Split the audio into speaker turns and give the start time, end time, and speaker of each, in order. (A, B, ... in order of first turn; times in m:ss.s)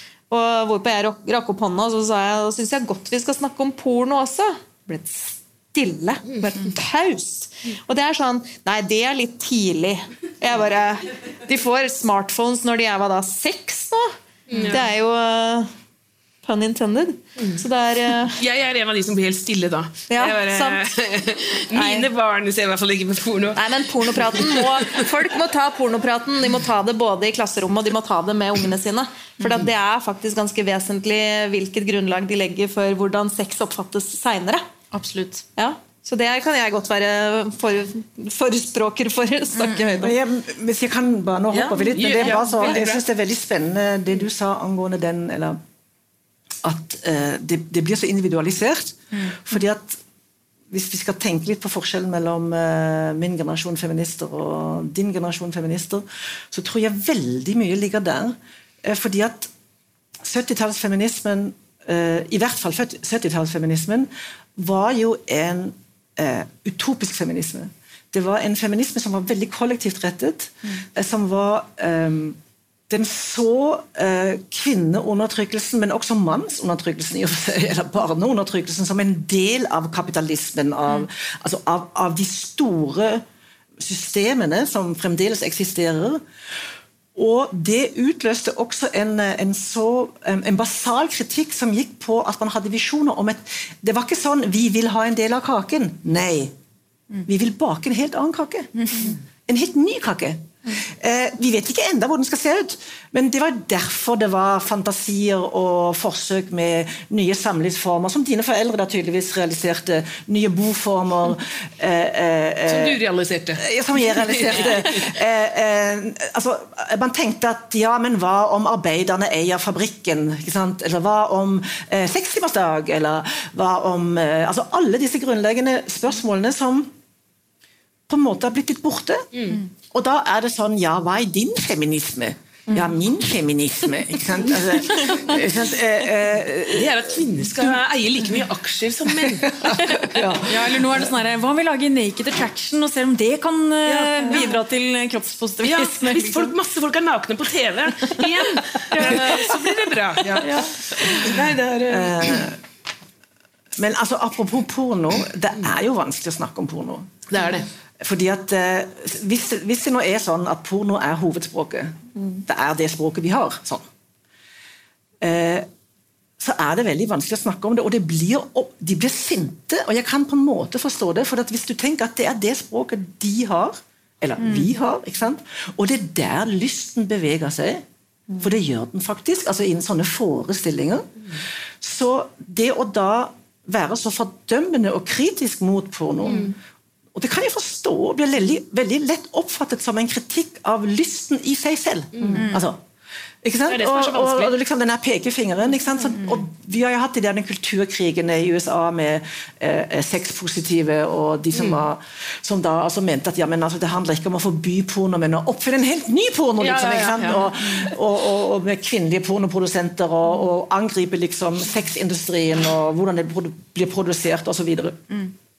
0:00.3-0:15.7 A
0:14.5-0:14.9 B
0:16.4-0:18.4 A
0:17.4-0:17.6 B
0:18.2-0:25.1 B
0:20.1-0:20.8 A
0:21.7-0:22.1 A
0:23.6-0:34.7 A
0:34.9-0:35.4 C
0:35.6-0:40.2 A
0:39.6-0:39.8 C
0:39.9-0:45.6 D
0:41.5-0:43.0 B
0:42.2-0:42.8 C
0:46.6-0:50.0 D
0:50.7-0:59.5 D
1:00.2-1:12.4 D
1:12.9-1:23.2 D
1:23.8-1:26.2 D
1:27.1-1:36.5 D
1:37.3-1:53.0 D
1:38.8-1:39.1 C
1:52.7-1:55.1 B
1:53.6-2:06.9 D
2:08.1-2:09.3 D
2:09.3-2:09.6 B
2:09.9-2:17.8 D
2:16.6-2:20.1 B
2:19.1-2:20.8 D
2:20.4-2:26.6 C
2:23.9-2:24.6 B
2:25.6-2:32.5 B
2:28.9-2:29.5 C
2:30.2-2:31.3 D
2:30.4-2:31.4 C
2:31.9-2:32.6 D
2:33.8-2:37.2 D
2:37.3-2:37.7 B
2:38.0-2:43.9 D
2:45.2-2:45.7 D
2:46.4-2:57.8 D
2:58.4-3:06.5 D
3:06.3-3:06.5 B
3:07.1-3:12.8 D
3:12.2-3:12.5 B
3:12.2-3:12.5 A
3:12.4-3:12.6 C
3:13.4-3:35.0 D
3:13.7-3:14.5 B
3:21.5-3:21.8 B
3:26.6-3:27.9 B